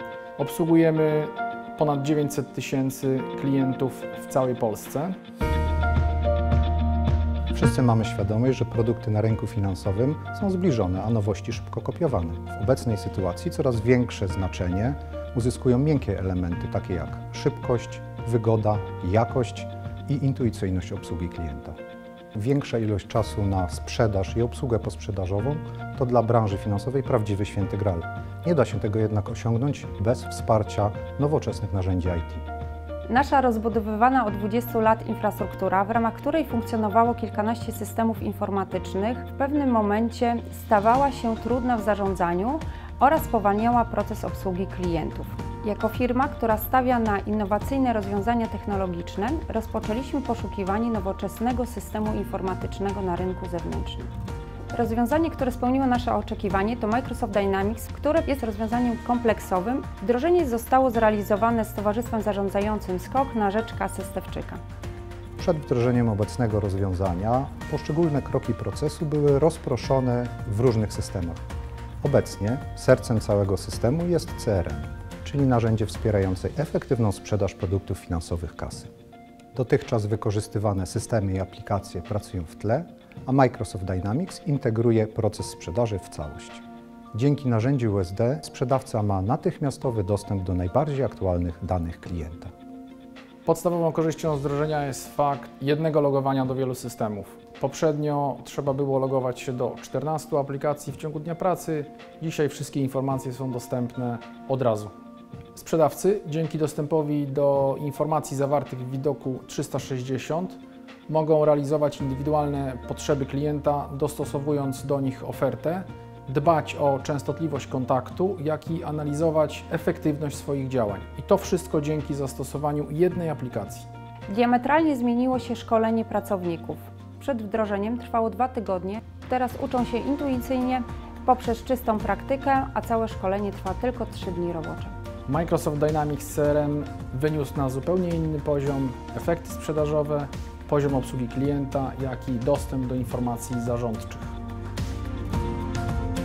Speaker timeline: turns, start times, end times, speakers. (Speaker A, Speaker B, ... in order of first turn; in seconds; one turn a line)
Speaker A: 0.4-5.2
Speaker B: 7.5-21.8
Speaker B: 22.3-32.5
Speaker C: 33.1-54.1
Speaker C: 54.7-64.6
Speaker B: 65.4-71.4
Speaker B: 72.0-78.9
Speaker B: 79.5-92.5
Speaker A: 93.4-104.9
Speaker A: 105.5-123.9
Speaker C: 124.3-135.0
Speaker A: 135.3-144.4